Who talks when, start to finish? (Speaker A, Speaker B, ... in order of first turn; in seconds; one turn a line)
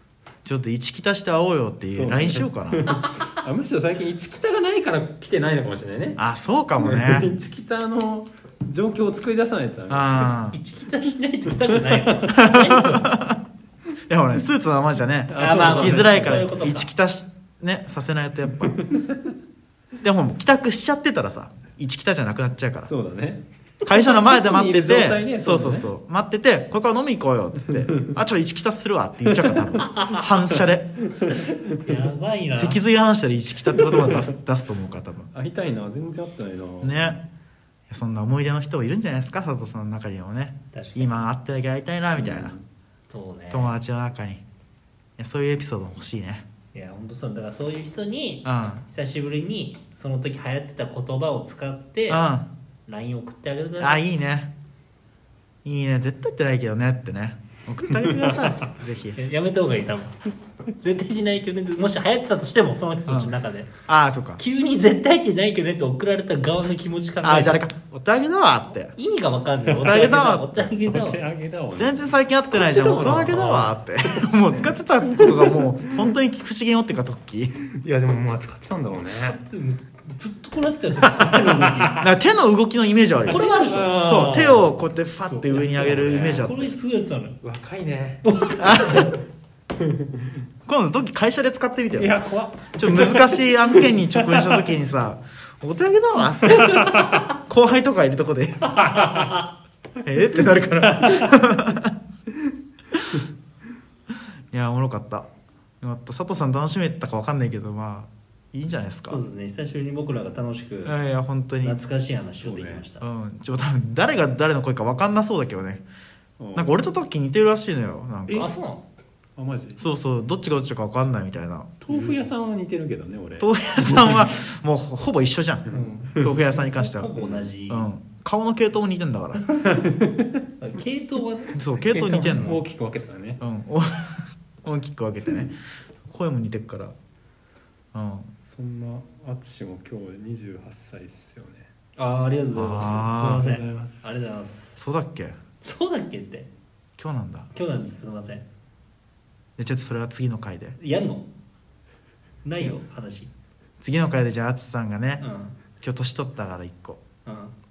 Speaker A: 0.5-3.0
Speaker B: 1.9-6.2
Speaker A: 6.2-7.3
Speaker B: 6.8-10.3
Speaker A: 9.9-10.6
Speaker C: 10.5-13.2
Speaker B: 11.7-12.3
Speaker A: 12.3-13.4
Speaker A: 14.1-18.8
Speaker B: 15.3-16.5
Speaker C: 15.4-16.9
Speaker B: 18.8-19.2
Speaker A: 20.0-22.9
Speaker B: 22.8-25.9
Speaker A: 23.9-30.9
Speaker B: 27.7-28.2
Speaker B: 29.3-29.7
Speaker C: 29.8-30.3
Speaker B: 31.2-31.8
Speaker C: 31.8-32.8
Speaker A: 32.5-35.3
Speaker B: 33.8-34.3
Speaker B: 35.3-37.1
Speaker A: 36.8-37.2
Speaker A: 37.9-42.5
Speaker C: 40.7-41.1
Speaker B: 42.2-42.6
Speaker C: 43.1-43.8
Speaker A: 43.5-44.4
Speaker A: 45.2-46.4
Speaker C: 46.7-52.2
Speaker A: 48.5-48.9
Speaker A: 52.1-52.5
Speaker C: 52.9-54.0
Speaker A: 53.8-54.5
Speaker A: 55.6-59.2
Speaker B: 57.9-58.5
Speaker C: 59.2-60.2
Speaker C: 60.8-63.7
Speaker A: 63.1-63.4
Speaker A: 63.9-64.4
Speaker C: 64.4-67.7
Speaker A: 67.2-69.0
Speaker C: 69.0-71.2
Speaker B: 69.7-70.3
Speaker A: 69.8-70.6
Speaker B: 70.8-74.6
Speaker A: 71.8-77.6
Speaker B: 75.2-75.6
Speaker B: 77.7-79.4
Speaker C: 79.1-82.0
Speaker B: 81.1-81.9
Speaker A: 82.0-83.4
Speaker C: 83.3-84.6
Speaker B: 83.3-84.7
Speaker A: 84.0-86.7
Speaker B: 85.3-86.5
Speaker C: 85.8-87.4
Speaker B: 87.4-88.2
Speaker C: 88.2-89.2
Speaker A: 88.6-89.1
Speaker B: 89.8-90.2
Speaker A: 90.7-92.2
Speaker B: 92.0-94.7
Speaker A: 92.7-99.0
Speaker B: 96.5-97.1
Speaker C: 98.7-99.5
Speaker A: 100.0-102.0
Speaker B: 101.0-101.3
Speaker A: 102.9-103.2
Speaker A: 104.5-105.3
Speaker A: 105.8-109.2
Speaker C: 109.0-111.0
Speaker A: 110.8-111.8
Speaker C: 111.6-113.0
Speaker B: 112.4-112.8
Speaker A: 113.0-115.8
Speaker B: 116.4-116.7
Speaker A: 116.5-118.5
Speaker C: 118.3-118.8
Speaker B: 119.4-119.8
Speaker A: 119.8-121.7
Speaker B: 121.8-124.2
Speaker C: 121.9-122.3
Speaker A: 123.4-127.1
Speaker C: 125.7-127.9
Speaker B: 125.7-126.3
Speaker B: 127.2-127.5
Speaker A: 127.7-129.4
Speaker B: 129.7-130.4
Speaker C: 130.6-132.1
Speaker A: 131.5-132.6
Speaker B: 131.9-133.4
Speaker A: 133.4-135.6
Speaker A: 136.1-136.9
Speaker A: 137.9-138.3
Speaker B: 138.4-141.7
Speaker C: 142.0-144.7
Speaker A: 142.5-143.5
Speaker B: 143.1-144.5
Speaker A: 144.8-145.4
Speaker C: 145.6-146.5
Speaker A: 147.0-147.5
Speaker C: 147.5-148.4
Speaker A: 149.6-150.8
Speaker C: 150.8-151.3
Speaker C: 152.4-153.3
Speaker A: 153.8-155.2
Speaker C: 155.2-155.6
Speaker A: 155.8-157.0
Speaker C: 157.3-157.6